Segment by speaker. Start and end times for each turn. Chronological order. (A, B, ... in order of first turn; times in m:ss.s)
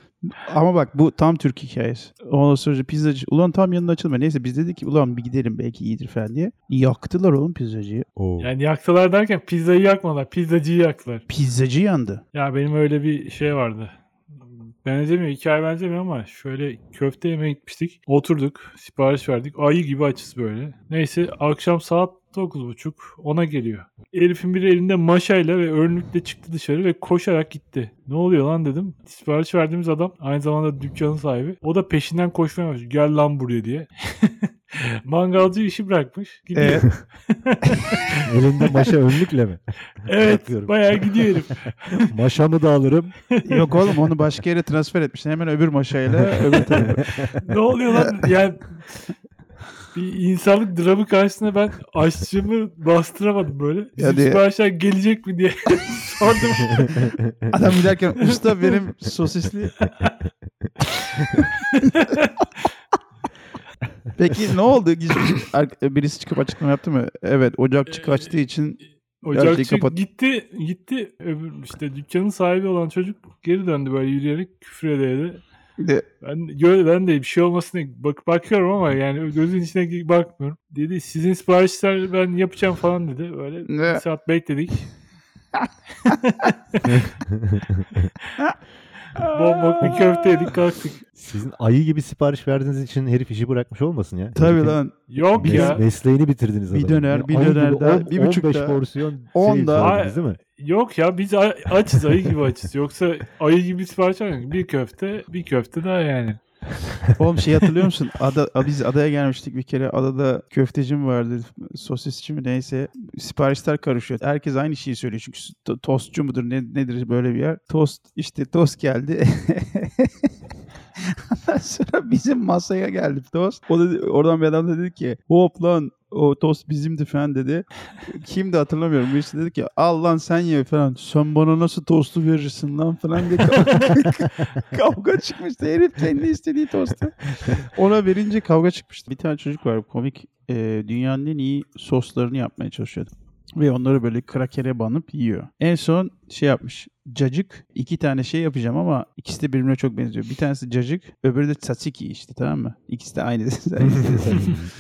0:00.2-0:08.1 A
0:08.2-0:08.5 B
0:08.4-0:11.2 C
0:11.3-0:12.2 A
0:12.3-0:13.9 C
0:14.8-0:34.5 C
0:35.0-0:38.9 C
0:36.6-0:37.0 A
0:38.2-0:41.4 B
0:40.0-0:42.0 C
0:42.1-0:43.1 B
0:43.4-0:43.6 C
0:43.4-0:47.2 A
0:46.7-0:47.4 B
0:47.4-0:48.8 C
0:49.9-0:57.1 C
0:54.0-0:54.4 A
0:57.0-0:57.3 B
0:57.5-0:59.8 A
1:01.7-1:02.5 C
1:04.2-1:10.0 A
1:07.9-1:08.3 C
1:09.2-1:15.4 C
1:15.8-1:16.0 A
1:16.2-1:24.9 C
1:23.7-1:24.0 A
1:25.6-1:26.1 A
1:26.4-1:26.9 C
1:26.8-1:28.1 B
1:29.2-1:30.2 A
1:29.2-1:31.0 C
1:31.2-1:34.8 B
1:34.4-1:35.8 A
1:35.1-1:35.8 C
1:35.3-1:40.4 B
1:36.7-1:38.8 A
1:39.3-1:40.0 A
1:39.8-1:46.4 C
1:47.2-2:00.1 A
2:01.1-2:34.5 A
2:33.8-2:34.7 B